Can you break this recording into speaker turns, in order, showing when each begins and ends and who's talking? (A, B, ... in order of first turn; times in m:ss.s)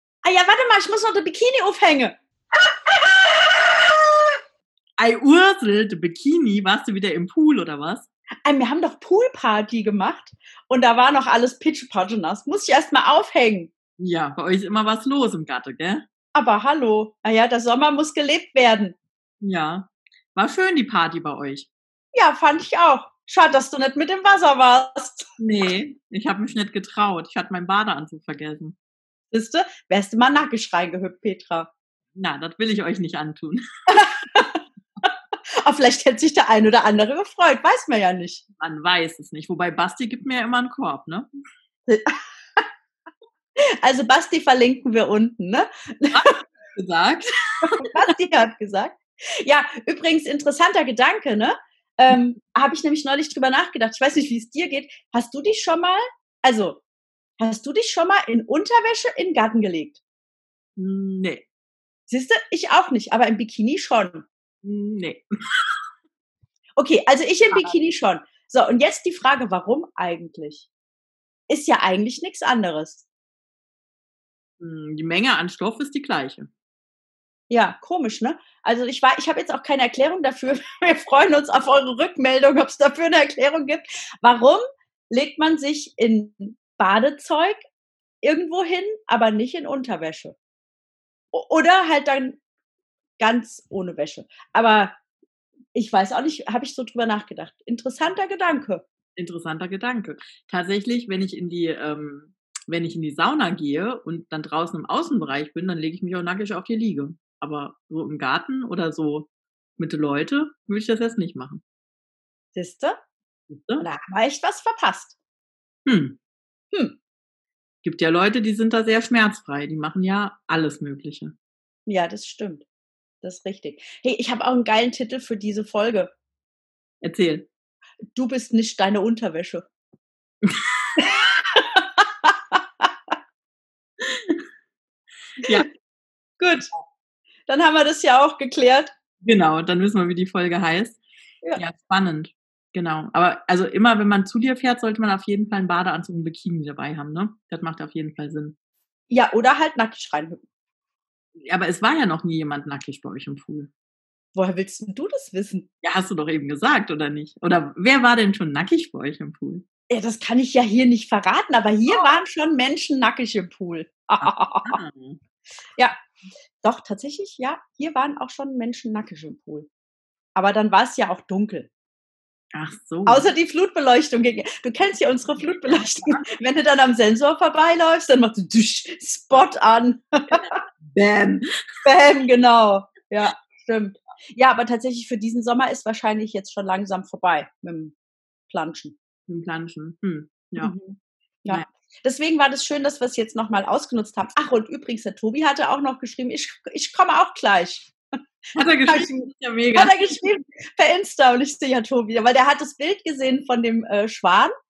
0:00.2-0:04.3 A
0:05.0-0:08.1 B
0:08.4-0:13.7 A
0:14.0-0:16.0 B
0:16.4-0:19.0 A
0:19.4-0:21.7 B
0:22.1-0:25.3 A
0:25.4-0:28.8 B
0:29.3-0:31.7 A
0:32.2-0:33.6 B
0:33.9-0:35.1 A
0:35.6-0:38.4 A
0:38.6-0:41.3 B
0:41.9-0:42.6 A
0:43.8-0:46.3 A
0:46.1-0:47.7 B
0:47.6-0:56.8 A
0:57.4-1:00.0 A
1:00.8-1:01.4 B
1:02.1-1:04.3 A
1:04.6-1:05.2 B
1:06.8-1:10.7 A
1:07.5-1:07.8 B
1:11.5-1:13.1 A
1:14.6-1:16.5 B
1:17.5-1:27.6 A
1:28.2-1:30.4 A
1:31.3-1:32.4 A
1:33.2-1:35.0 A
1:35.7-1:38.8 A
1:39.2-1:51.6 B
1:52.6-1:53.0 A
1:53.5-1:53.9 B
1:53.8-1:55.2 A
1:55.9-1:56.2 B
1:57.8-2:01.3 B
2:01.9-2:02.6 A
2:03.2-2:06.1 A
2:07.0-2:07.5 B
2:08.1-2:09.6 A
2:10.5-2:11.0 B
2:11.0-2:13.1 A
2:14.0-2:14.4 B
2:15.4-2:15.7 B
2:16.4-2:16.7 A
2:17.5-2:18.9 A
2:19.2-2:21.0 B
2:21.6-2:28.6 B
2:29.1-2:30.4 A
2:31.5-2:33.7 B
2:34.4-2:35.7 A
2:35.8-2:39.6 B
2:39.9-2:44.8 A
2:44.2-2:45.2 B
2:46.6-2:49.7 A
2:50.4-2:51.7 A
2:52.5-2:53.3 B
2:53.1-3:00.5 A
3:00.9-3:01.4 B
3:01.8-3:08.0 A
3:08.5-3:08.9 A
3:09.3-3:10.8 B
3:10.6-3:18.0 A
3:18.5-3:20.0 B
3:18.9-3:19.1 A
3:19.7-3:24.5 A